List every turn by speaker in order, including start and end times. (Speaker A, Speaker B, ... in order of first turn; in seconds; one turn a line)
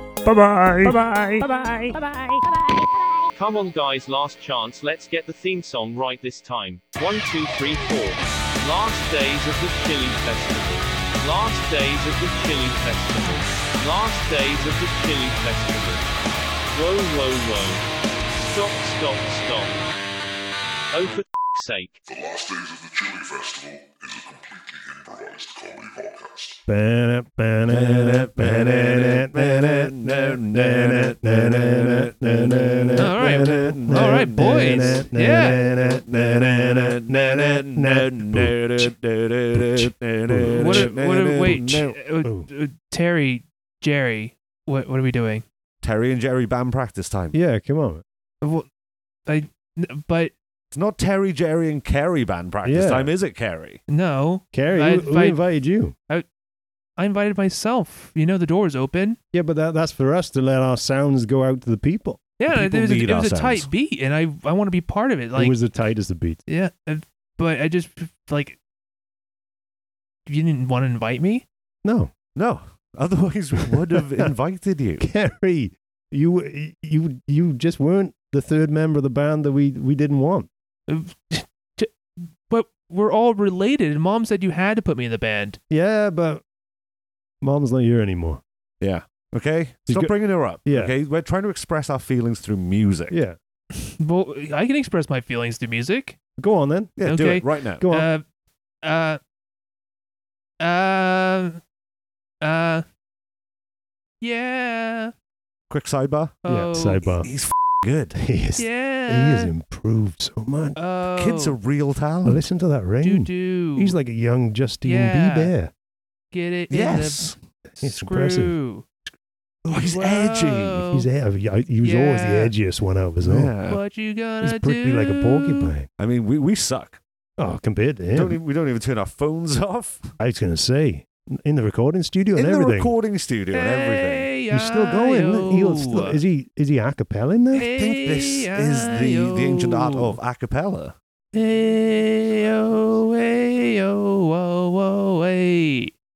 Speaker A: 0.2-2.2
Speaker B: 3.3-16.1
Speaker B: 16.7-19.9
Speaker B: 20.9-22.0
Speaker C: 22.1-26.5
Speaker D: 26.7-38.9
Speaker A: 27.7-42.0
Speaker E: 33.0-35.6
Speaker D: 39.5-40.9
Speaker E: 40.5-45.4
Speaker D: 42.2-42.5
Speaker A: 45.8-47.4
Speaker D: 47.3-48.0
Speaker E: 48.4-48.7
Speaker E: 49.2-50.3
Speaker A: 50.7-53.8
Speaker D: 52.6-53.1
Speaker E: 53.9-55.4
Speaker D: 54.5-55.9
Speaker E: 57.0-59.2
Speaker D: 59.3-62.2
Speaker E: 62.4-65.5
Speaker A: 62.5-63.7
Speaker D: 65.3-66.4
Speaker E: 66.5-68.6
Speaker E: 70.2-71.4
Speaker D: 71.8-72.1
Speaker A: 72.3-75.1
Speaker D: 73.6-74.3
Speaker D: 75.0-80.5
Speaker E: 80.9-85.6
Speaker D: 85.7-86.4
Speaker D: 87.4-88.4
Speaker A: 88.8-93.2
Speaker D: 89.9-90.1
Speaker D: 90.6-90.9
Speaker D: 93.1-93.4
Speaker E: 93.7-96.2
Speaker D: 96.4-97.0
Speaker A: 97.0-97.8
Speaker E: 97.0-98.2
Speaker D: 97.8-98.1
Speaker E: 98.8-99.2
Speaker E: 100.6-101.6
Speaker E: 102.4-102.8
Speaker E: 104.2-105.1
Speaker A: 105.7-106.3
Speaker E: 106.4-107.0
Speaker D: 106.5-107.3
Speaker A: 107.2-108.2
Speaker D: 108.1-110.8
Speaker E: 108.6-109.5
Speaker E: 110.8-111.5
Speaker A: 111.1-112.4
Speaker D: 112.2-115.7
Speaker E: 113.0-114.0
Speaker E: 114.8-115.5
Speaker E: 116.3-118.8
Speaker A: 116.7-117.4
Speaker D: 117.8-118.5
Speaker A: 119.7-120.9
Speaker E: 119.7-121.0
Speaker D: 120.9-123.5
Speaker E: 121.8-122.5
Speaker A: 123.2-123.8
Speaker E: 123.7-125.7
Speaker D: 124.4-125.9
Speaker A: 126.0-127.0
Speaker D: 127.4-128.4
Speaker A: 128.1-130.1
Speaker D: 130.2-132.9
Speaker A: 132.3-134.3
Speaker E: 133.5-136.2
Speaker D: 134.5-137.7
Speaker E: 137.5-140.2
Speaker A: 137.7-140.9
Speaker E: 141.3-145.9